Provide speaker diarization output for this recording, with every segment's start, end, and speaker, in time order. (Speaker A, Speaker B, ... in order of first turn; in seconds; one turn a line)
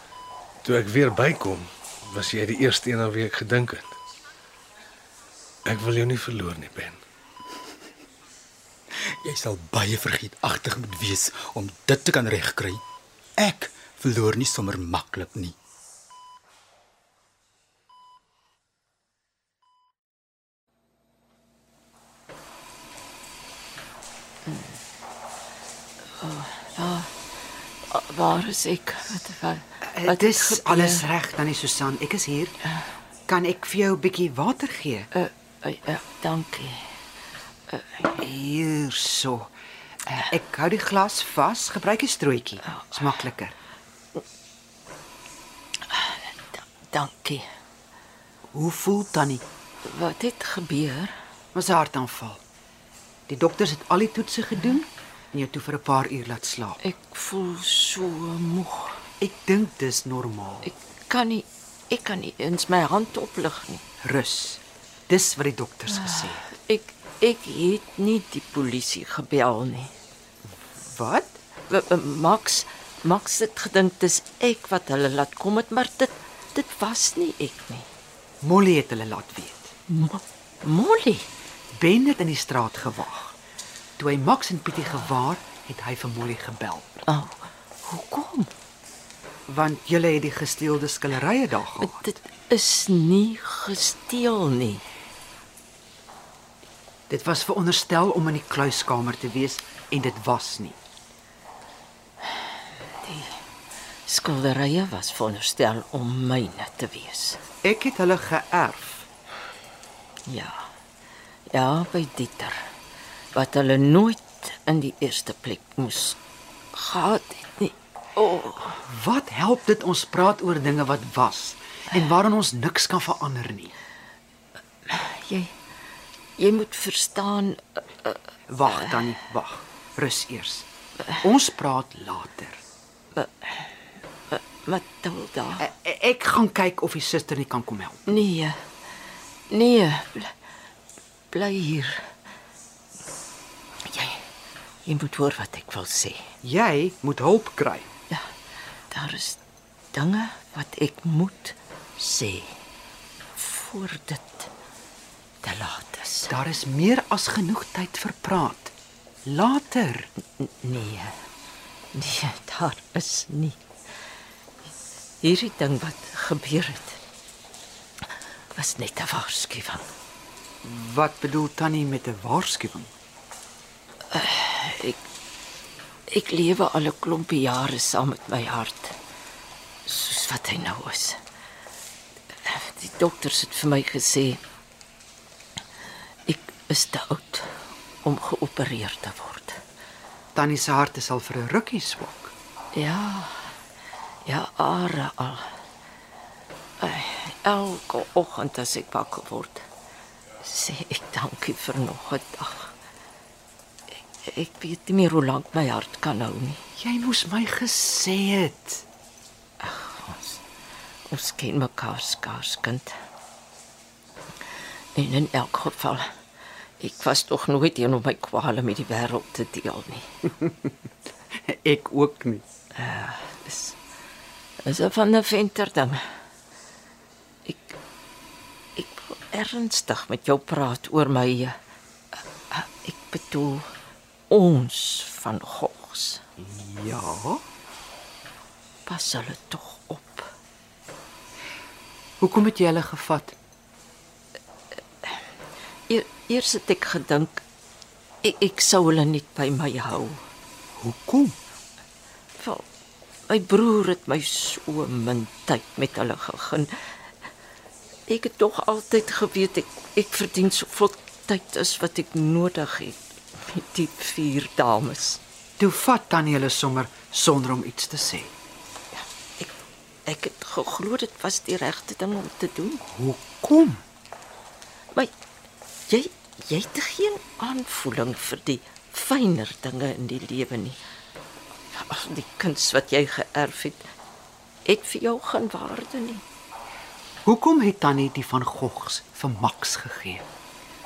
Speaker A: 0.6-3.9
Speaker A: 5.7-7.0
Speaker B: 9.2-12.8
Speaker B: 13.4-15.5
Speaker C: 26.2-27.1
Speaker C: 27.9-31.0
Speaker D: 29.8-32.6
Speaker D: 33.3-35.1
Speaker C: 35.1-36.8
Speaker C: 37.7-38.1
Speaker D: 38.2-39.5
Speaker D: 40.0-43.5
Speaker C: 45.9-47.5
Speaker D: 48.5-49.4
Speaker C: 49.8-51.1
Speaker D: 51.5-52.4
Speaker D: 53.3-56.8
Speaker C: 56.8-59.0
Speaker D: 59.2-60.7
Speaker C: 60.6-63.8
Speaker D: 64.0-66.4
Speaker C: 66.5-69.9
Speaker D: 70.8-71.4
Speaker C: 71.7-77.9
Speaker D: 78.4-79.7
Speaker C: 79.9-81.3
Speaker D: 81.7-83.3
Speaker D: 84.0-87.0
Speaker C: 87.1-88.5
Speaker D: 89.5-92.0
Speaker C: 91.8-94.8
Speaker D: 97.1-100.8
Speaker C: 103.0-103.3
Speaker C: 104.0-107.4
Speaker D: 107.6-109.1
Speaker C: 110.2-110.7
Speaker C: 111.5-112.6
Speaker C: 113.3-116.2
Speaker C: 116.7-118.8
Speaker D: 118.8-123.7
Speaker C: 124.9-125.5
Speaker C: 126.4-128.1
Speaker D: 128.5-130.7
Speaker D: 131.2-132.6
Speaker C: 133.1-133.6
Speaker C: 134.3-135.7
Speaker D: 135.6-138.1
Speaker C: 138.1-138.6
Speaker C: 139.5-140.3
Speaker C: 141.3-142.1
Speaker C: 143.9-144.2
Speaker C: 144.8-146.2
Speaker D: 146.4-147.9
Speaker C: 148.9-149.4
Speaker C: 149.9-152.6
Speaker C: 153.3-154.5
Speaker C: 155.4-156.3
Speaker D: 156.3-158.7
Speaker D: 159.2-160.1
Speaker C: 160.4-161.1
Speaker C: 161.9-163.6
Speaker C: 165.2-167.0
Speaker C: 168.5-169.9
Speaker D: 170.6-172.9
Speaker C: 174.1-175.0
Speaker C: 176.1-178.9
Speaker C: 179.8-181.2
Speaker C: 182.4-184.4
Speaker C: 186.3-187.5
Speaker C: 188.0-189.6
Speaker D: 190.3-192.3
Speaker C: 192.7-193.4
Speaker C: 194.2-195.5
Speaker C: 196.8-199.6
Speaker C: 200.4-202.7
Speaker C: 204.2-206.6
Speaker D: 206.8-208.8
Speaker C: 209.6-210.4
Speaker C: 211.1-212.9
Speaker C: 214.9-216.1
Speaker C: 216.8-220.1
Speaker D: 221.5-222.4
Speaker C: 222.7-223.8
Speaker C: 224.6-226.0
Speaker C: 227.4-227.8
Speaker C: 228.8-231.5
Speaker C: 232.5-233.6
Speaker C: 234.3-236.2
Speaker D: 236.4-237.4
Speaker C: 238.8-240.3
Speaker D: 242.2-243.3
Speaker C: 245.9-247.4
Speaker C: 248.2-250.2
Speaker D: 250.8-251.3
Speaker C: 252.4-252.6
Speaker C: 253.3-256.7
Speaker C: 258.1-265.2
Speaker D: 265.6-268.3
Speaker C: 270.1-272.8
Speaker D: 272.9-273.8
Speaker C: 275.9-280.8
Speaker C: 281.7-283.9
Speaker C: 284.6-286.2
Speaker D: 287.2-290.2